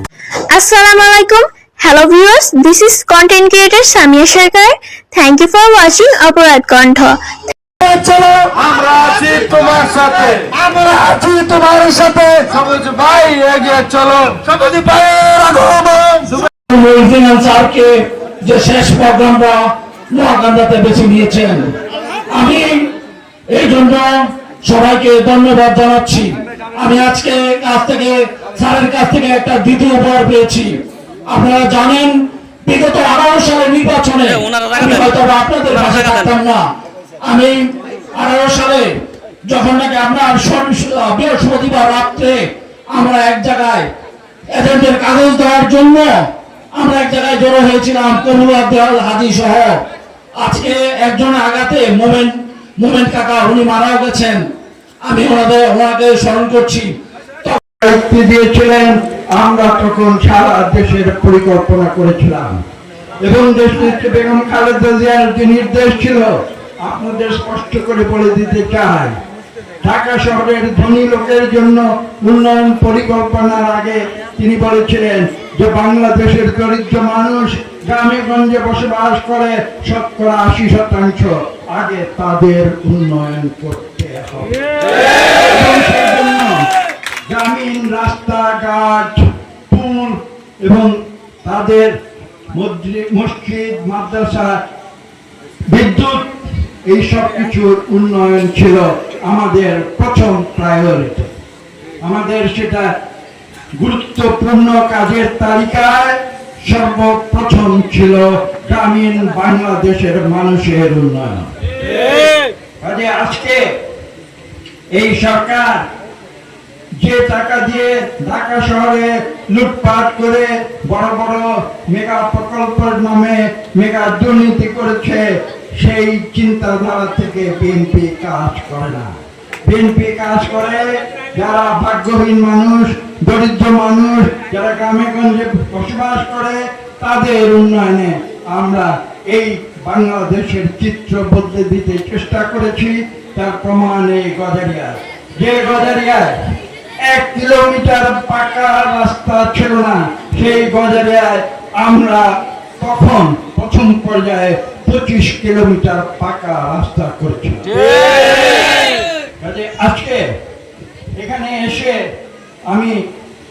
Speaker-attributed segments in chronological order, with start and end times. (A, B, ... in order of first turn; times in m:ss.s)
0:00.5-0:07.2 A
0:07.8-0:08.5 B
0:09.0-0:10.2 C
0:10.5-0:12.5 B
0:12.4-0:14.7 C
0:14.6-0:21.7 B
0:22.3-0:22.9 B
0:23.5-0:24.1 B
0:24.6-0:30.8 B
0:31.3-0:32.1 B
0:32.7-0:36.6 B
0:37.2-0:38.9 B
0:39.5-0:42.4 B
0:42.9-0:43.9 B
0:44.5-0:46.1 B
0:46.8-0:49.8 B
0:50.4-0:54.5 B
0:55.1-0:56.9 B
0:57.8-1:02.6 D
1:03.2-1:09.2 D
1:09.8-1:24.6 D
1:25.4-1:26.7 D
1:27.3-1:32.0 D
1:32.5-1:34.6 D
1:35.7-1:36.3 D
1:36.8-1:41.3 D
1:42.0-1:42.9 D
1:43.8-1:51.5 D
1:52.8-1:53.6 D
1:55.0-1:55.8 D
1:57.0-2:05.3 D
2:05.8-2:09.1 D
2:09.6-2:26.4 D
2:27.1-2:38.4 D
2:39.4-2:40.2 D
2:41.2-2:42.0 D
2:42.7-2:43.0 D